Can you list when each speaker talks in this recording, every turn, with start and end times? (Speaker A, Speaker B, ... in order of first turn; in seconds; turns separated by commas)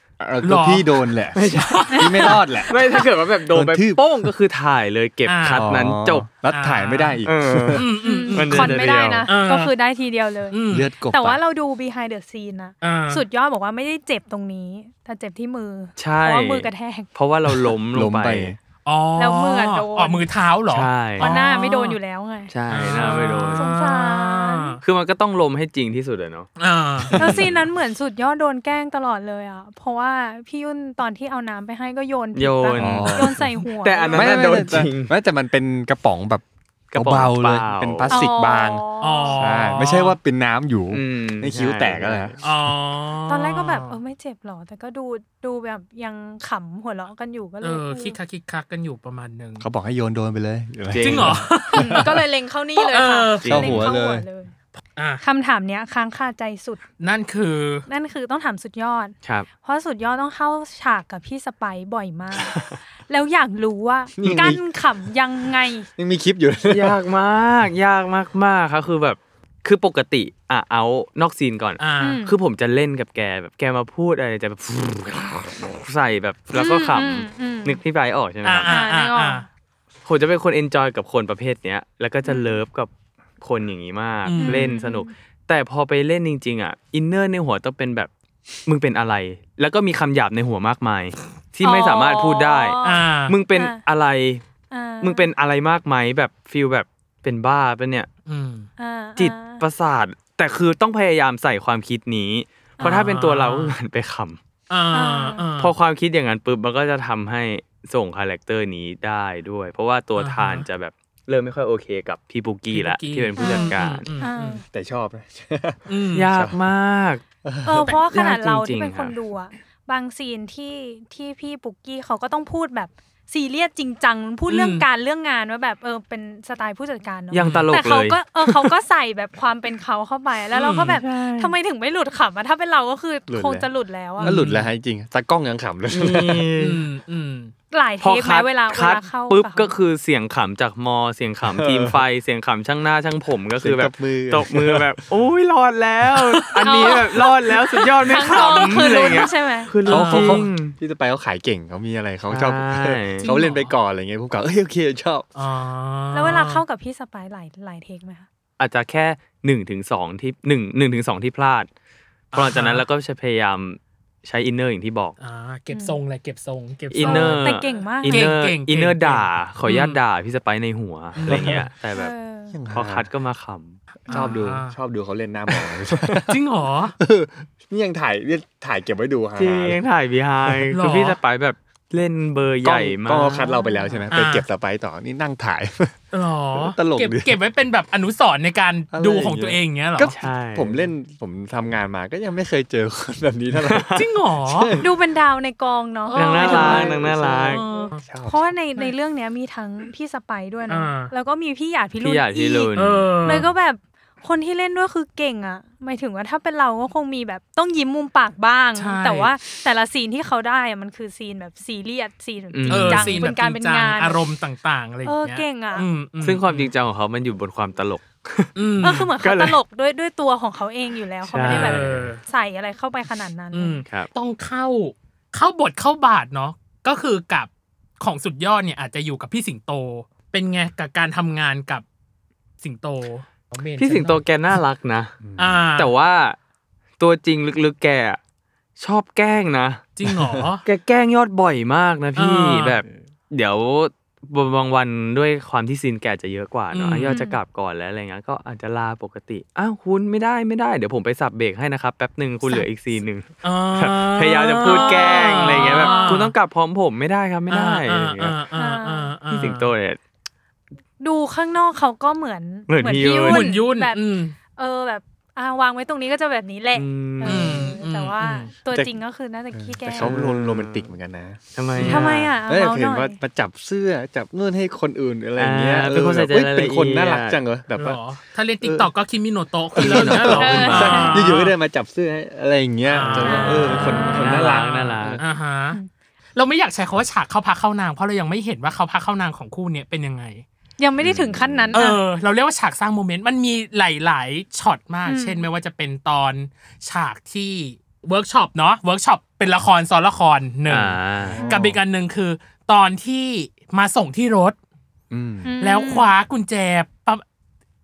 Speaker A: 0.2-2.8, Speaker B: 0.4-1.0, Speaker C: 1.4-6.3, Speaker B: 1.7-2.4, Speaker A: 3.5-4.1, Speaker B: 5.3-5.7, Speaker A: 5.5-7.8, Speaker B: 6.5-7.2, Speaker C: 7.2-9.3, Speaker B: 7.7-9.7, Speaker D: 8.0-17.1, Speaker B: 10.5-10.9, Speaker A: 10.7-11.4, Speaker B: 12.8-13.2, Speaker C: 16.0-18.5, Speaker A: 17.9-18.6, Speaker B: 18.9-22.0, Speaker D: 19.2-20.3, Speaker C: 20.7-21.3, Speaker D: 21.2-24.8, Speaker C: 22.5-23.6, Speaker B: 22.7-24.8, Speaker C: 24.8-26.5, Speaker B: 26.6-27.3, Speaker C: 27.1-27.5, Speaker D: 27.2-34.6, Speaker C: 32.4-35.1, Speaker A: 32.8-33.5, Speaker A: 34.1-38.9, Speaker C: 36.9-38.2, Speaker D: 38.1-39.4, Speaker B: 39.0-40.2, Speaker A: 39.4-42.4, Speaker C: 40.9-42.4, Speaker B: 42.4-44.0, Speaker D: 43.3-48.2, Speaker B: 47.6-49.6, Speaker A: 49.6-52.1, Speaker C: 50.9-51.5, Speaker B: 51.0-52.1, Speaker D: 51.7-54.5, Speaker B: 52.8-53.6, Speaker C: 53.4-53.8, Speaker A: 53.5-54.3, Speaker B: 55.0-55.2, Speaker D: 55.2-56.8, Speaker B: 57.0-57.9, Speaker D: 57.9-65.9, Speaker A: 64.2-64.6, Speaker A: 66.0-67.0, Speaker C: 66.7-78.7, Speaker B: 71.8-72.2, Speaker D: 72.0-72.3, Speaker D: 76.5-77.8, Speaker B: 78.4-79.5, Speaker D: 78.7-79.5, Speaker C: 80.1-82.9, Speaker D: 82.2-82.6, Speaker C: 83.4-88.1, Speaker B: 84.2-84.7, Speaker D: 84.4-85.1, Speaker C: 88.7-94.4, Speaker D: 91.6-93.8, Speaker B: 92.8-93.4, Speaker D: 94.7-95.3, Speaker C: 95.0-98.1, Speaker B: 98.3-98.7, Speaker D: 98.8-99.6, Speaker C: 99.2-104.4, Speaker D: 102.8-103.0, Speaker B: 102.8-103.8, Speaker B: 104.7-105.8, Speaker D: 104.9-105.5, Speaker C: 105.6-114.1, Speaker B: 110.2-110.7, Speaker B: 112.7-114.6, Speaker D: 113.4-114.6, Speaker A: 114.7-116.6, Speaker B: 115.9-116.3, Speaker C: 116.2-117.2, Speaker A: 117.4-118.0, Speaker D: 117.6-134.4, Speaker C: 118.1-119.1, Speaker B: 124.5-124.9, Speaker C: 127.3-128.7, Speaker B: 127.4-127.7, Speaker B: 130.5-131.0, Speaker C: 130.9-131.6, Speaker A: 133.3-133.7, Speaker B: 134.2-134.7, Speaker A: 134.2-136.5, Speaker C: 135.9-136.8, Speaker B: 136.6-137.5, Speaker D: 137.7-139.7, Speaker C: 138.0-150.8, Speaker A: 141.4-142.0, Speaker A: 143.6-144.9, Speaker B: 146.4-149.3, Speaker D: 146.6-147.1, Speaker D: 148.1-149.7, Speaker B: 149.8-150.4, Speaker A: 149.9-155.3, Speaker C: 152.3-153.2, Speaker B: 153.2-153.7, Speaker B: 155.3-156.6, Speaker D: 156.1-158.3, Speaker C: 158.6-161.7, Speaker B: 162.3-162.8, Speaker C: 162.3-165.2, Speaker B: 165.2-167.5, Speaker D: 165.7-166.0, Speaker C: 166.9-172.1, Speaker D: 167.0-168.3, Speaker B: 168.1-170.0, Speaker B: 171.2-171.7, Speaker A: 171.3-171.6, Speaker D: 171.9-172.6, Speaker A: 172.5-173.1, Speaker C: 172.7-174.3, Speaker A: 174.1-176.4, Speaker B: 174.1-174.8, Speaker B: 176.3-177.0, Speaker A: 177.0-179.8, Speaker C: 179.4-183.5, Speaker B: 180.7-181.2, Speaker A: 182.6-186.0, Speaker B: 184.1-184.4, Speaker B: 186.1-190.1, Speaker A: 186.5-187.3, Speaker A: 188.9-194.9, Speaker C: 190.1-190.9, Speaker C: 193.6-194.0, Speaker B: 193.9-194.7, Speaker D: 194.8-197.0, Speaker B: 196.1-198.0, Speaker C: 196.1-197.6, Speaker A: 196.6-198.5, Speaker D: 197.7-214.2, Speaker B: 200.7-201.1, Speaker C: 202.0-203.5, Speaker B: 202.8-203.5, Speaker B: 208.8-209.3, Speaker C: 212.5-213.3, Speaker B: 212.7-216.7, Speaker D: 215.0-215.9, Speaker C: 216.2-219.6, Speaker B: 218.6-219.1, Speaker D: 218.8-223.8, Speaker C: 221.3-222.1, Speaker B: 221.4-222.2, Speaker B: 223.5-227.5, Speaker B: 228.0-231.8, Speaker B: 232.6-234.2, Speaker C: 233.8-235.2, Speaker A: 235.2-235.7, Speaker B: 235.4-235.9, Speaker C: 235.8-236.4, Speaker C: 237.0-238.2, Speaker C: 238.8-239.9, Speaker B: 240.0-240.6, Speaker A: 240.1-240.4, Speaker C: 240.7-258.4, Speaker B: 242.2-242.8, Speaker B: 246.7-247.2, Speaker D: 247.1-247.4, Speaker B: 253.4-256.3, Speaker D: 254.7-256.3, Speaker B: 257.5-259.7, Speaker D: 258.5-259.1, Speaker C: 259.3-260.0, Speaker D: 261.0-270.1, Speaker C: 262.7-263.5, Speaker B: 263.2-264.4, Speaker C: 266.7-267.7, Speaker B: 267.2-268.5, Speaker A: 269.5-278.0, Speaker C: 270.0-270.9, Speaker C: 271.6-272.3, Speaker D: 271.9-273.2, Speaker C: 275.4-277.4, Speaker B: 277.8-281.5, Speaker A: 278.6-278.9, Speaker A: 279.8-285.2, Speaker C: 279.8-281.2, Speaker D: 280.4-281.1, Speaker B: 282.9-285.8, Speaker D: 283.2-284.4, Speaker C: 283.7-285.2, Speaker B: 286.4-290.4, Speaker D: 290.8-292.0, Speaker A: 291.0-291.7, Speaker C: 291.0-291.5, Speaker B: 291.7-304.6, Speaker D: 295.1-295.5, Speaker C: 300.7-301.4, Speaker A: 301.2-301.8, Speaker D: 301.4-301.6, Speaker A: 305.1-305.5, Speaker D: 305.4-306.1, Speaker B: 305.6-307.2